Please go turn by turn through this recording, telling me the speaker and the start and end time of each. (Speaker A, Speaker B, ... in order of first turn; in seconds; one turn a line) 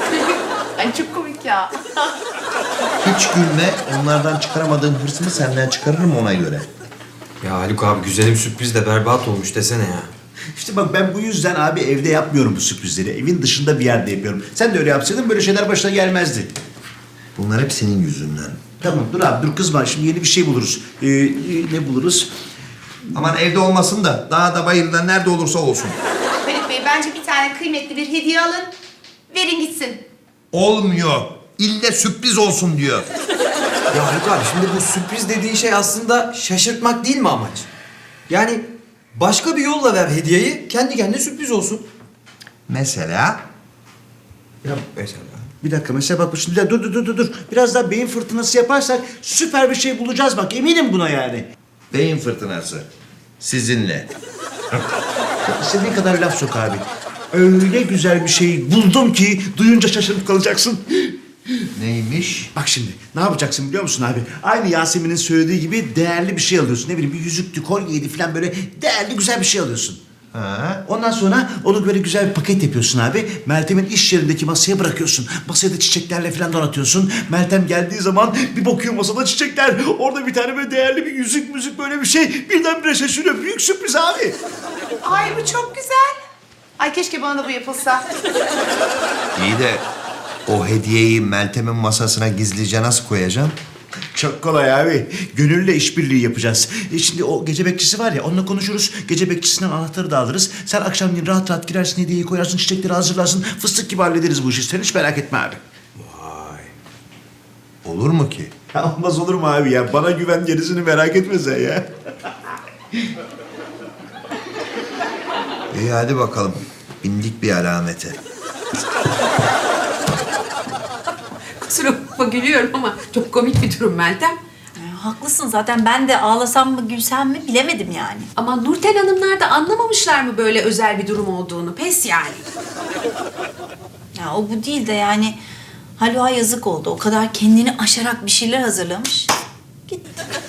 Speaker A: 0.2-1.8
Speaker B: 3.0-6.7
Speaker C: 7.4-10.1
Speaker D: 10.5-16.5
Speaker B: 17.4-18.6
Speaker D: 18.8-22.3
Speaker B: 23.1-26.0
Speaker A: 26.4-28.8
Speaker A: 29.3-30.1
Speaker B: 30.5-33.1
Speaker C: 33.9-37.7
Speaker C: 38.3-41.9
Speaker B: 42.7-43.4
Speaker C: 44.6-45.5
Speaker D: 45.6-51.5
Speaker B: 51.9-52.9
Speaker B: 53.4-54.1
Speaker D: 55.5-61.1
Speaker B: 61.8-62.5
Speaker D: 62.5-70.0
Speaker B: 70.3-70.8
Speaker D: 70.8-84.4
Speaker A: 85.0-86.2
Speaker A: 86.8-88.0
Speaker B: 89.4-89.9
Speaker B: 90.5-93.5
Speaker D: 94.2-105.6
Speaker C: 106.0-106.7
Speaker B: 107.8-108.5
Speaker D: 108.7-111.9
Speaker B: 115.7-118.2
Speaker E: 121.6-124.4
Speaker F: 124.8-128.3
Speaker E: 128.4-132.5
Speaker F: 134.2-135.4
Speaker F: 136.0-139.3
Speaker F: 139.9-140.2